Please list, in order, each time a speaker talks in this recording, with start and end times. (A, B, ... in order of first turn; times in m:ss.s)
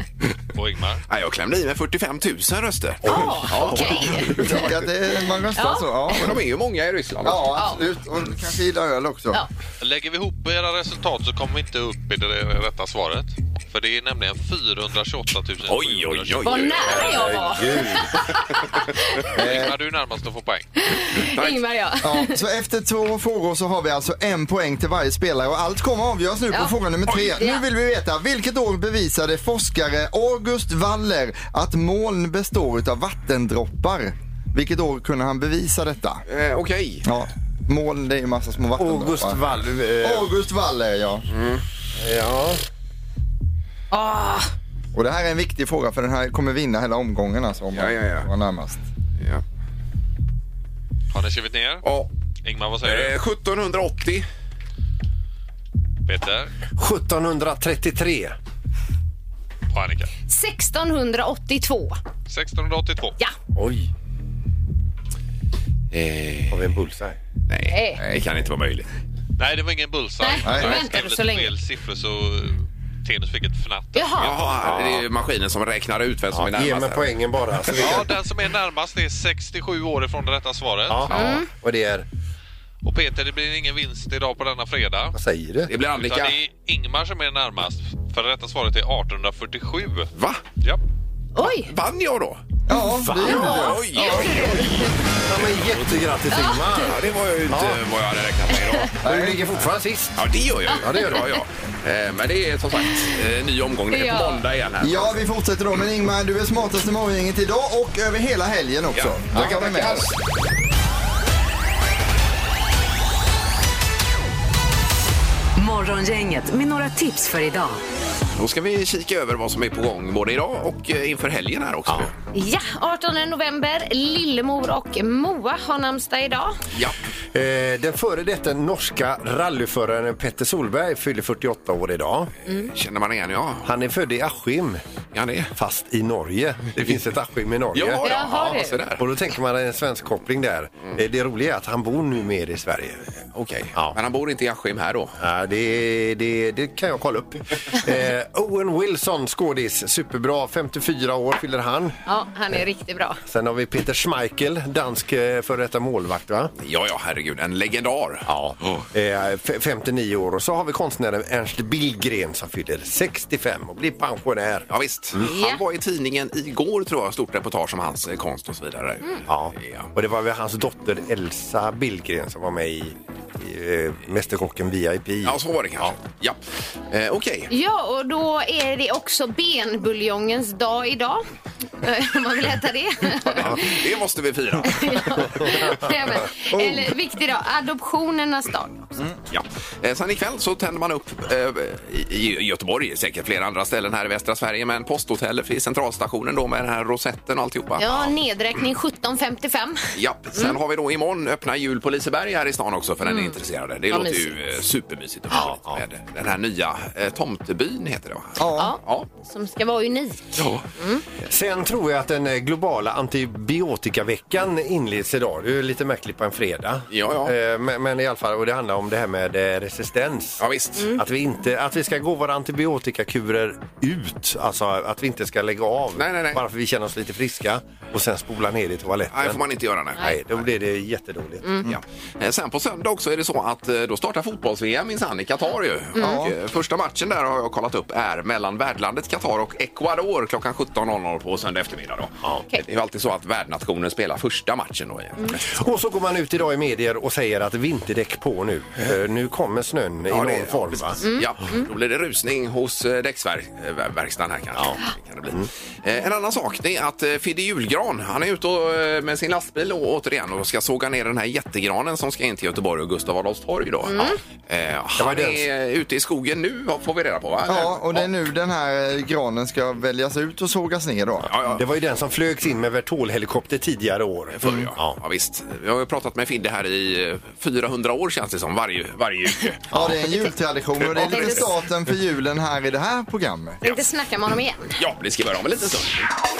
0:00.5-0:01.0 A
0:01.1-0:04.7 B
0:03.0-0:04.2 C
0:03.0-0:04.5 D
0:04.3-0:06.4 E
0:05.5-0:06.2 D
0:06.1-0:07.6 B
0:07.2-0:09.4 E
0:07.5-0:07.8 D
0:09.8-0:16.7 A
0:15.6-0:17.1 B
0:16.4-0:19.3 D
0:16.8-0:18.2 C
0:19.3-0:20.7 A
0:19.3-0:19.7 E
0:20.8-0:22.4 D
0:21.1-0:21.6 B
0:22.0-0:36.2 E
0:26.5-0:27.6 D
0:36.3-0:37.1 B
0:37.0-0:39.4 E
0:38.8-0:40.3 C
0:40.0-0:41.3 E
0:41.3-0:41.6 B
0:42.0-0:42.6 C
0:43.9-0:44.5 D
0:44.9-0:48.8 E
0:47.7-0:48.3 B
0:51.1-0:51.8 A
0:51.8-0:52.1 B
0:52.4-0:53.2 A
0:52.8-0:54.3 B
0:56.1-0:56.5 A
0:56.8-0:58.4 C
0:59.7-1:00.1 A
1:00.3-1:02.0 D
1:02.3-1:03.1 A
1:03.5-1:03.9 C
1:05.9-1:06.6 B
1:06.5-1:07.2 C
1:07.5-1:08.9 B
1:07.7-1:08.0 D
1:09.4-1:14.3 A
1:10.2-1:11.5 D
1:13.9-1:14.4 D
1:14.2-1:17.1 B
1:14.6-1:15.0 C
1:16.3-1:18.1 C
1:17.6-1:18.0 B
1:17.8-1:21.3 A
1:20.9-1:22.0 C
1:21.1-1:21.5 D
1:22.8-1:25.1 A
1:25.1-1:25.7 C
1:25.7-1:26.4 B
1:25.9-1:30.8 A
1:30.1-1:30.4 B
1:31.4-1:31.7 D
1:31.4-1:32.4 B
1:32.7-1:34.2 E
1:32.7-1:37.8 C
1:33.2-1:34.9 D
1:33.4-1:35.7 B
1:36.3-1:36.9 D
1:36.8-1:39.0 B
1:39.0-1:40.2 C
1:39.0-1:39.4 E
1:40.2-1:45.2 B
1:40.7-1:41.3 C
1:40.9-1:41.2 D
1:43.9-1:44.4 D
1:44.8-1:50.1 E
1:48.9-1:50.2 B
1:55.6-1:57.8 F
1:58.4-2:02.1 B
2:02.3-2:06.6 D
2:07.3-2:12.3 C
2:12.7-2:13.7 B
2:13.6-2:14.8 C
2:15.1-2:15.5 B
2:15.5-2:18.5 C
2:17.7-2:19.0 B
2:18.0-2:18.8 D
2:19.0-2:23.0 C
2:23.3-2:25.1 B
2:25.2-2:32.0 C
2:32.0-2:33.2 D
2:33.3-2:36.5 C
2:36.6-2:38.8 B
2:38.2-2:45.3 C
2:44.7-2:49.9 B
2:45.2-2:45.6 D
2:49.3-2:56.0 C
2:55.2-2:57.5 B
2:57.5-3:01.2 D
3:01.8-3:03.8 D
3:03.2-3:05.6 B
3:04.6-3:09.0 D
3:06.5-3:06.9 E
3:09.3-3:18.1 B
3:17.8-3:20.6 D
3:20.0-3:29.1 B
3:23.0-3:23.4 D
3:23.9-3:24.6 D
3:25.3-3:25.8 C
3:28.4-3:28.8 E
3:28.6-3:31.0 D
3:30.4-3:30.6 B
3:31.3-3:49.4 C
3:36.9-3:37.3 B
3:40.4-3:41.0 B
3:46.0-3:46.4 B
3:49.1-3:50.4 B
3:50.0-3:51.6 C
3:51.6-4:05.6 B
3:56.0-3:56.3 E
4:05.4-4:11.0 C
4:10.1-4:28.1 B
4:11.0-4:11.6 D
4:23.9-4:24.2 D
4:25.0-4:25.5 C
4:27.4-4:31.3 E
4:31.2-4:31.6 B
4:31.5-4:35.0 C
4:34.4-4:39.7 B
4:39.7-4:40.0 C
4:39.7-4:43.6 E
4:40.8-4:41.4 B
4:40.9-4:41.4 D
4:43.6-4:44.8 D
4:44.8-4:46.1 B